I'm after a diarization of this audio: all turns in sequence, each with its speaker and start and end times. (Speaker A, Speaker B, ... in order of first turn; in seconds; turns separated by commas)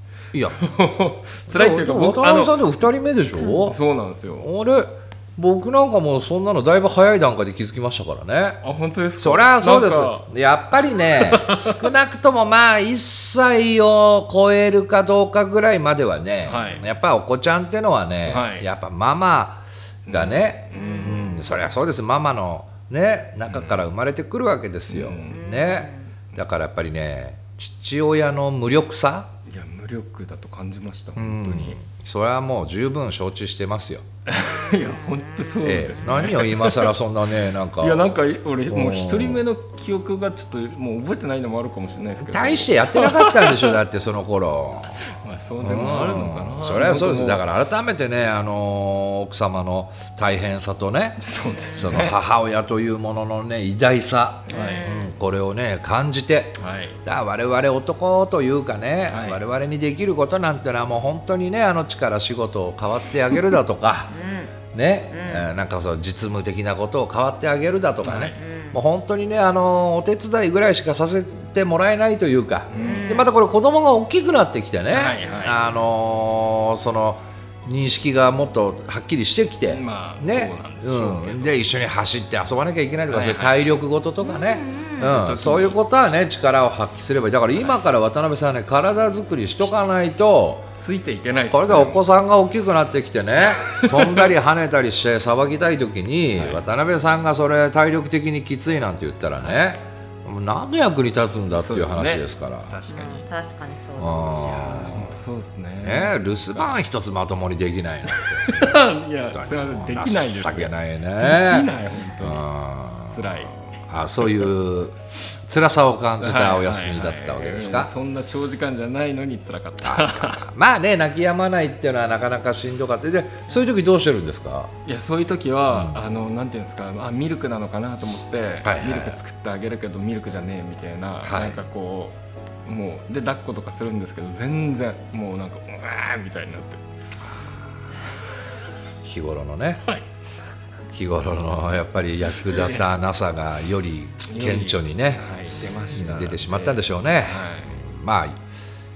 Speaker A: 0.6-2.6, Speaker B: 1.5-3.8, Speaker A: 3.5-4.5, Speaker B: 4.4-8.6, Speaker A: 8.6-10.3, Speaker B: 9.2-29.3, Speaker A: 11.1-11.9, Speaker A: 16.4-16.8, Speaker A: 18.2-18.7, Speaker A: 20.1-21.2, Speaker C: 20.7-21.5, Speaker A: 23.5-23.8, Speaker A: 24.9-25.4, Speaker C: 25.3-26.0, Speaker A: 29.5-31.8, Speaker B: 31.2-34.0, Speaker A: 34.2-36.9, Speaker B: 35.6-38.1, Speaker A: 37.8-43.8, Speaker B: 38.7-39.4, Speaker B: 42.2-45.0, Speaker A: 45.0-47.4, Speaker B: 45.6-51.2, Speaker A: 51.2-52.2, Speaker B: 51.8-64.1, Speaker A: 54.5-54.8, Speaker C: 54.5-55.1, Speaker A: 56.6-57.0, Speaker A: 59.1-59.4, Speaker C: 64.1-64.5, Speaker B: 64.7-90.7, Speaker C: 65.1-65.5, Speaker A: 68.0-68.4, Speaker C: 68.4-68.8, Speaker A: 72.7-73.0, Speaker C: 72.7-73.3, Speaker A: 74.9-75.6, Speaker C: 75.2-75.5, Speaker A: 79.7-81.6, Speaker A: 83.1-83.6, Speaker C: 84.2-85.1, Speaker A: 85.0-85.8, Speaker A: 90.8-92.0, Speaker B: 91.5-102.8, Speaker A: 93.7-94.3, Speaker A: 96.3-96.6, Speaker A: 99.3-99.6, Speaker A: 101.5-103.3, Speaker C: 102.9-104.5, Speaker B: 104.0-105.2, Speaker A: 104.4-106.8, Speaker B: 105.8-111.7, Speaker A: 108.1-112.5, Speaker B: 112.2-117.9, Speaker A: 113.1-113.5, Speaker A: 116.2-120.5, Speaker B: 119.8-124.7, Speaker A: 124.8-136.8, Speaker B: 125.7-126.0, Speaker B: 128.6-129.2, Speaker B: 131.2-131.6, Speaker B: 139.0-139.8, Speaker B: 140.9-145.2, Speaker A: 142.3-142.9, Speaker A: 144.3-147.8, Speaker B: 145.9-148.3